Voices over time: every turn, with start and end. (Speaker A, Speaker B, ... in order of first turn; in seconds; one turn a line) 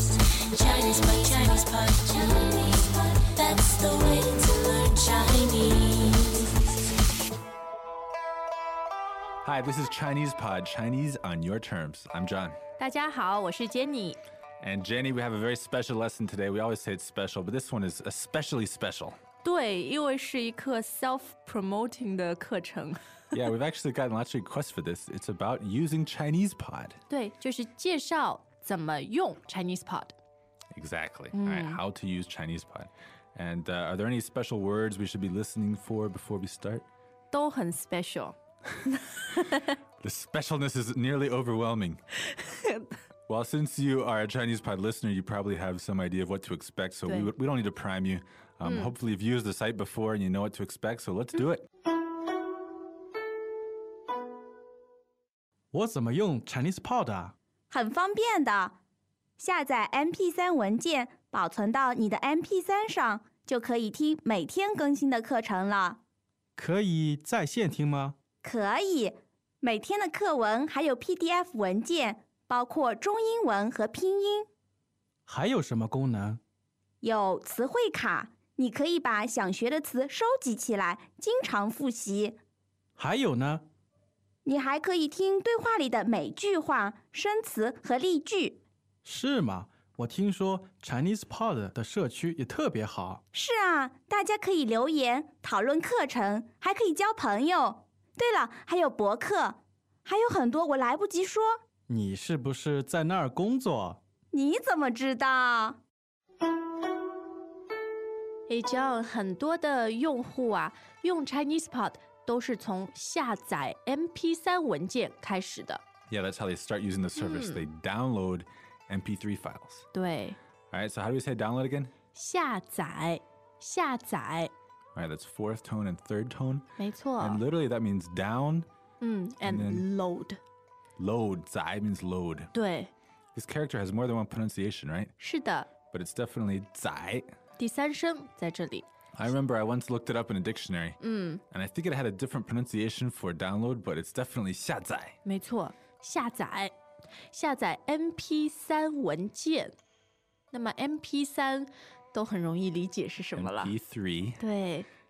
Speaker A: 0.5-6.5
Speaker B: 9.4-12.6
Speaker C: 12.8-14.2
Speaker B: 14.6-19.2
Speaker C: 19.4-23.0
Speaker B: 23.3-27.0
Speaker C: 27.1-30.1
Speaker B: 30.7-36.9
Speaker C: 31.3-31.8
Speaker C: 37.3-38.3
Speaker C: 39.1-39.8
Speaker B: 40.0-42.0
Speaker C: 42.4-42.9
Speaker B: 43.3-51.6
Speaker C: 47.0-47.3
Speaker C: 48.6-48.9
Speaker D: 55.7-57.3
Speaker E: 57.7-58.8
Speaker E: 59.4-66.0
Speaker D: 66.6-68.2
Speaker E: 68.4-74.5
Speaker D: 75.3-76.4
Speaker E: 77.0-82.4
Speaker D: 83.0-83.6
Speaker E: 84.4-88.6
Speaker D: 89.0-93.2
Speaker E: 93.3-101.6
Speaker D: 101.9-104.0
Speaker E: 104.3-105.8
Speaker C: 108.5-115.8
Speaker B: 116.1-119.8
Speaker C: 117.2-117.7
Speaker C: 119.9-120.4
Speaker B: 120.7-121.9
Speaker C: 122.1-124.5
Speaker B: 125.0-126.7
Speaker C: 126.8-127.4
Speaker B: 127.2-128.7
Speaker C: 129.0-130.4
Speaker B: 129.4-129.9
Speaker B: 131.0-132.5
Speaker C: 132.5-132.9
Speaker B: 133.3-135.1
Speaker C: 135.2-135.7
Speaker B: 135.9-137.3
Speaker C: 137.6-138.9
Speaker B: 139.2-145.2
Speaker C: 141.0-141.4
Speaker C: 145.2-146.7
Speaker C: 147.3-149.7
Speaker C: 150.5-153.7
Speaker B: 153.4-154.4
Speaker C: 154.4-154.9